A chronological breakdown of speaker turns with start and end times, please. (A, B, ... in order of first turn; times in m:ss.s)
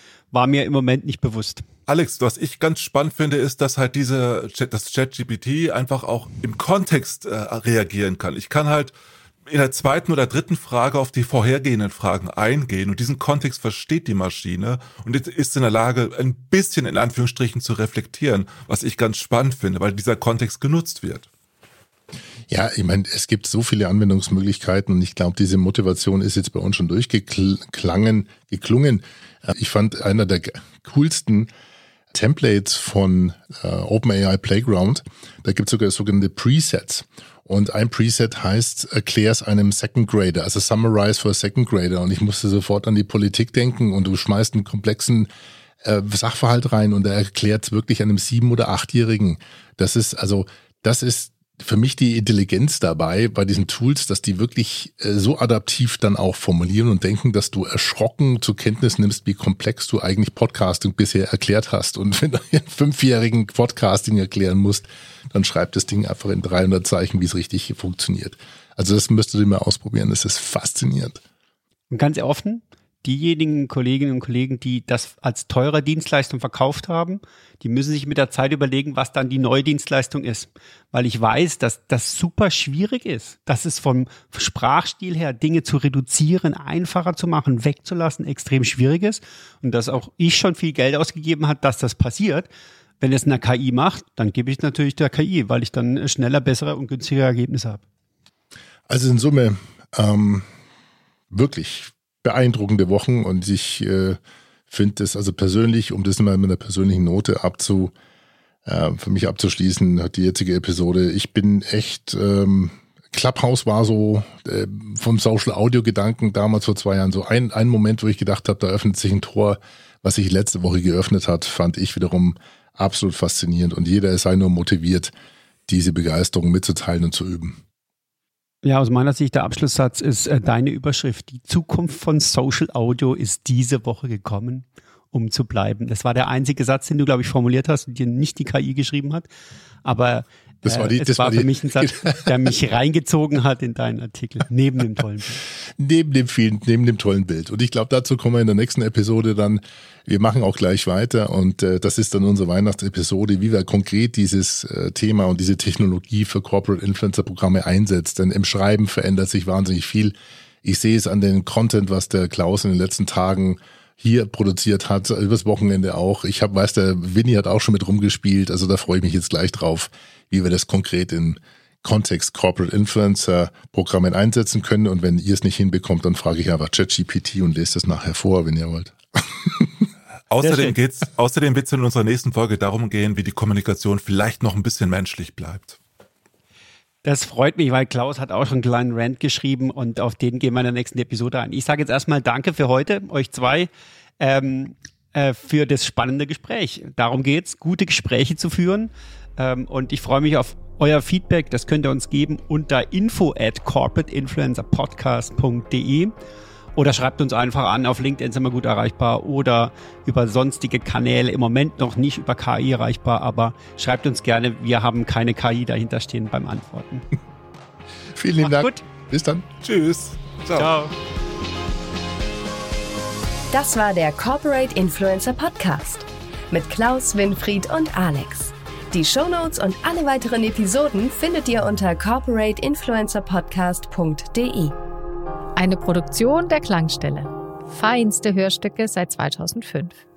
0:00.3-0:01.6 A
0:01.9-0:08.9 B
0:09.5-0:21.3 B
0:22.5-0:31.5 C
0:32.1-0:45.3 C
0:45.8-1:11.2 C
1:11.9-1:32.5 A
1:33.0-1:37.8 A
1:38.9-1:40.5 C
1:41.3-1:44.2 C
1:44.7-1:47.9 C
1:48.6-2:05.1 C
2:05.7-2:07.6 C
2:08.6-2:19.3 A
2:19.8-2:25.4 A
2:20.6-2:22.3 C
2:25.8-2:59.7 C
3:00.3-3:05.8 B
3:00.4-3:00.7 A
3:07.0-3:13.7 A
3:14.2-3:26.1 A
3:26.8-3:37.0 A
3:38.2-3:39.5 C
3:38.4-3:38.8 A
3:39.6-3:40.7 B
3:40.6-3:40.9 A
3:43.5-3:54.8 D
3:55.6-4:00.0 E